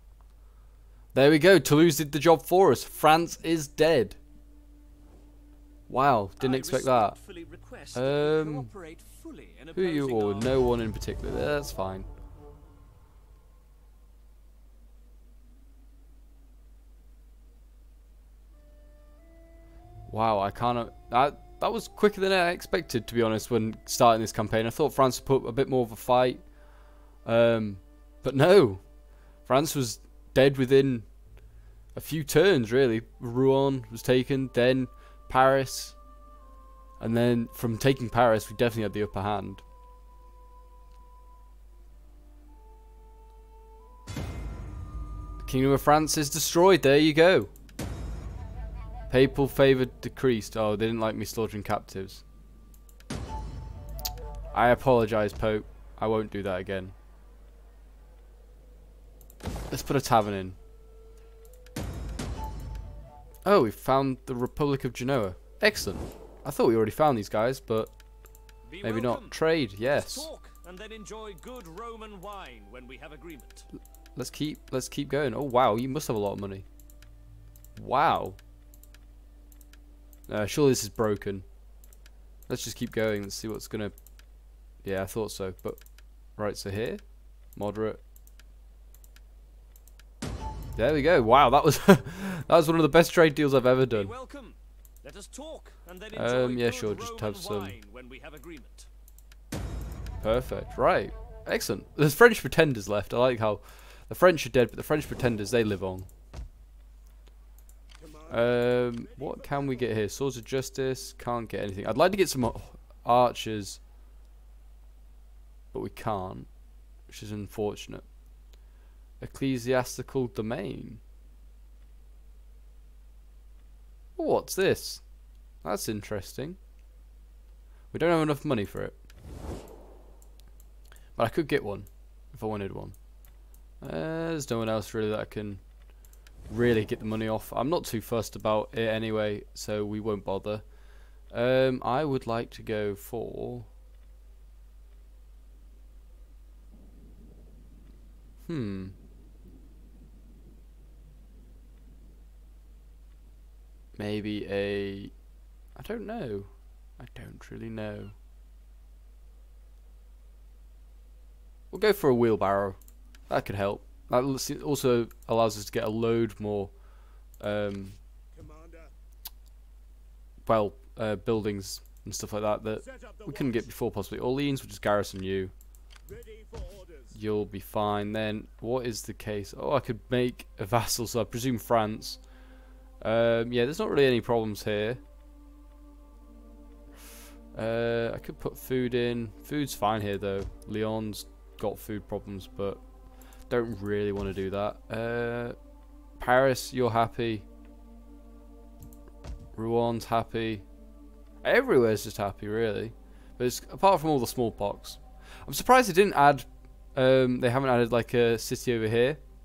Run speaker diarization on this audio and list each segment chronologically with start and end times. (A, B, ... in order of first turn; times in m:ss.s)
0:01.1-0:04.2 A
0:05.9-0:07.2 A
0:06.4-0:10.6 B
0:07.9-0:08.7 A
0:09.7-0:12.1 A
0:20.1-0:26.4 A
0:27.2-0:28.8 A
0:29.4-0:31.1 A
0:31.9-0:36.0 A
0:37.0-0:39.6 A
0:45.4-0:47.5 A
0:49.1-0:52.2 A
0:54.5-0:56.9 A
0:59.7-1:00.6 A
1:03.4-1:07.9 A
1:08.6-1:13.7 B
1:08.8-1:10.3 A
1:14.2-1:16.6 A
1:17.7-1:18.4 A
1:20.3-1:21.4 A
1:22.5-1:23.9 A
1:24.8-1:25.8 A
1:26.4-1:27.0 A
1:27.6-1:28.0 A
1:30.8-1:34.1 A
1:33.9-1:38.9 B
1:36.1-1:37.8 A
1:40.2-1:46.1 A
1:48.0-1:49.9 C
1:48.3-1:53.8 A
1:55.7-1:56.5 A
1:57.1-1:58.0 A
1:59.2-2:01.0 A
2:04.2-2:05.0 A
2:05.6-2:06.6 A
2:07.9-2:09.0 A
2:11.2-2:13.0 A
2:13.8-2:15.6 A
2:16.5-2:20.6 A
2:21.3-2:23.7 A
2:28.4-2:28.9 A
2:34.0-2:35.1 A
2:35.8-2:38.2 A
2:41.7-2:42.8 A
2:43.3-2:46.7 A
2:47.4-2:48.0 A
2:48.3-2:48.9 C
2:50.4-2:55.5 A
2:52.8-2:53.7 C
2:56.0-2:57.2 C
2:57.1-3:02.2 A
3:03.0-3:05.0 A
3:07.5-3:12.8 A
3:13.5-3:15.6 A
3:16.2-3:17.4 A
3:19.5-3:20.6 A
3:21.4-3:29.2 A